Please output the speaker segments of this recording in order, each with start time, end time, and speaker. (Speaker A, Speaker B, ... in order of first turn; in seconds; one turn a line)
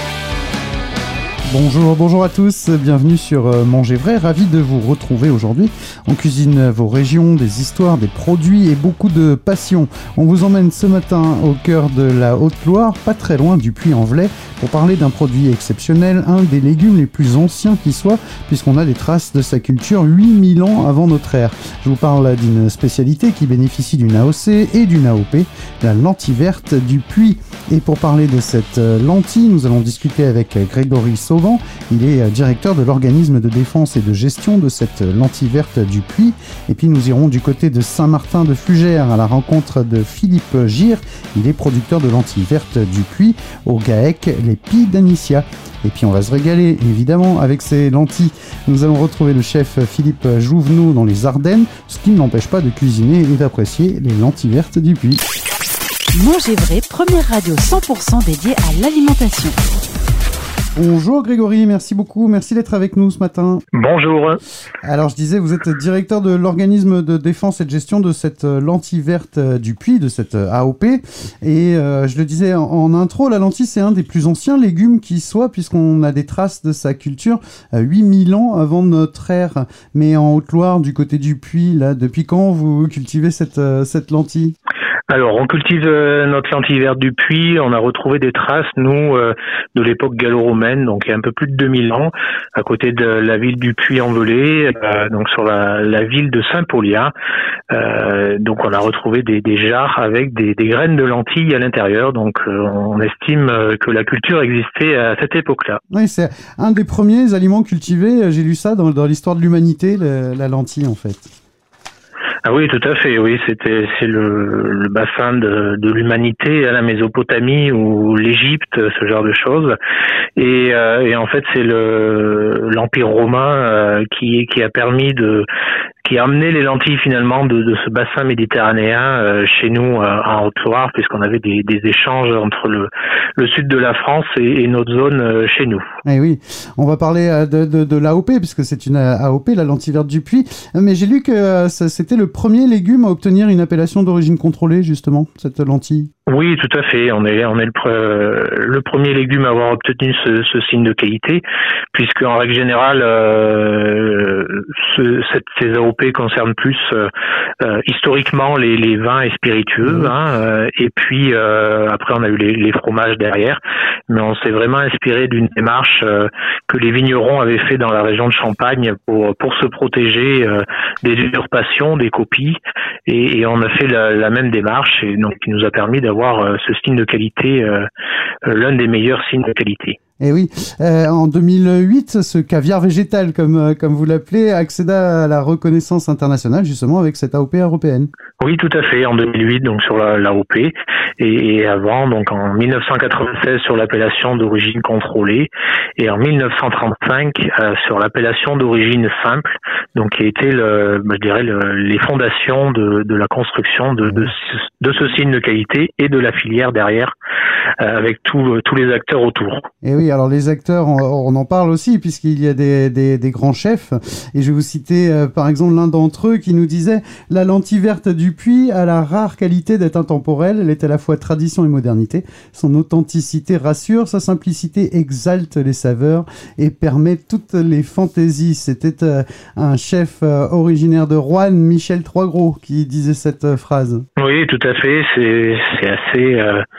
Speaker A: 1.5-55.2
Speaker B: 56.1-59.5
Speaker A: 60.7-63.6
Speaker C: 63.7-64.4
Speaker A: 64.8-84.5
Speaker C: 85.1-97.1
Speaker C: 97.7-105.8
Speaker A: 105.9-111.3
Speaker C: 112.4-119.8
Speaker C: 120.4-125.5
Speaker C: 126.0-135.8
Speaker A: 136.0-146.1
Speaker C: 146.3-151.4
Speaker C: 151.9-157.1
Speaker C: 157.6-177.9
Speaker A: 159.8-160.1
Speaker C: 178.4-180.0
Speaker A: 180.2-188.1
Speaker C: 188.4-207.1
Speaker A: 204.0-204.3
Speaker C: 207.8-209.7
Speaker A: 209.8-234.1
Speaker C: 234.2-236.6